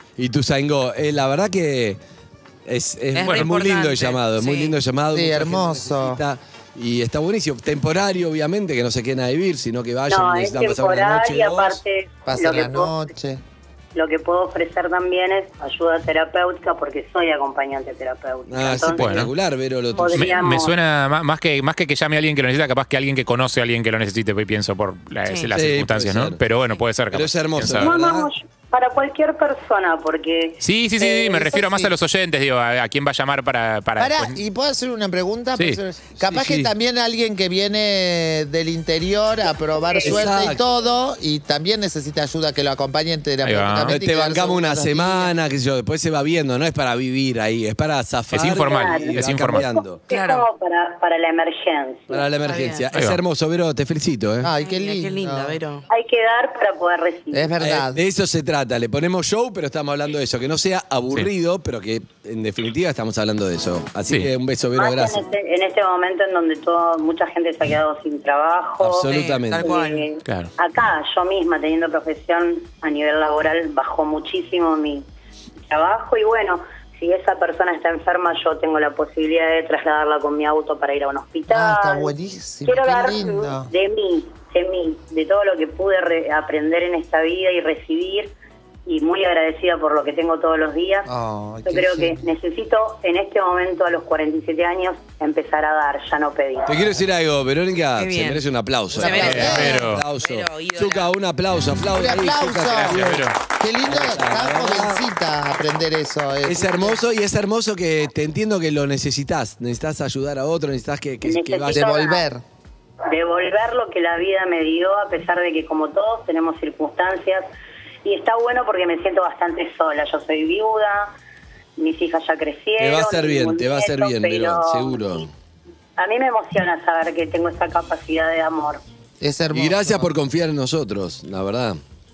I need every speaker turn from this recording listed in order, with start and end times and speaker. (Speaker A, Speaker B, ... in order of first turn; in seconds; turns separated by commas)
Speaker A: 0.2-2.0, Speaker A: 2.6-11.8, Speaker B: 3.1-4.7, Speaker C: 5.1-6.2, Speaker D: 10.1-12.9, Speaker C: 12.2-13.4, Speaker D: 13.9-19.2, Speaker A: 18.5-20.5, Speaker E: 18.9-19.3, Speaker D: 19.9-20.7, Speaker E: 20.1-27.9, Speaker A: 25.5-26.4, Speaker A: 27.1-28.3, Speaker D: 27.8-30.6, Speaker E: 30.6-34.4, Speaker C: 31.0-31.9, Speaker C: 34.0-45.3, Speaker A: 36.2-36.7, Speaker D: 39.9-40.3, Speaker A: 40.0-40.6, Speaker E: 43.4-44.0, Speaker A: 43.9-50.0, Speaker E: 48.3-49.7, Speaker D: 48.6-49.1, Speaker D: 49.8-52.2, Speaker B: 50.1-50.4, Speaker A: 52.1-54.5, Speaker B: 52.4-52.9, Speaker E: 52.9-53.2, Speaker C: 54.4-55.6, Speaker B: 54.6-55.8, Speaker D: 55.9-57.5, Speaker C: 57.3-58.0, Speaker A: 57.6-65.2, Speaker D: 64.7-75.0, Speaker A: 68.8-69.8, Speaker B: 69.0-70.0, Speaker E: 70.2-70.5, Speaker D: 75.7-82.1, Speaker C: 81.5-83.7, Speaker D: 82.6-88.3, Speaker D: 88.8-91.1, Speaker C: 91.1-92.2, Speaker D: 91.6-96.8, Speaker A: 96.7-103.2, Speaker B: 98.0-98.4, Speaker B: 98.9-101.1, Speaker C: 99.0-99.8, Speaker E: 99.2-100.0, Speaker C: 101.9-107.0, Speaker E: 102.7-103.3, Speaker A: 103.8-105.0, Speaker A: 106.4-111.9, Speaker D: 111.2-112.2, Speaker C: 111.7-112.4, Speaker D: 113.0-117.5, Speaker D: 118.0-121.1, Speaker D: 121.8-125.2, Speaker A: 122.8-125.3, Speaker D: 126.0-128.8, Speaker C: 129.2-130.1, Speaker A: 129.5-131.8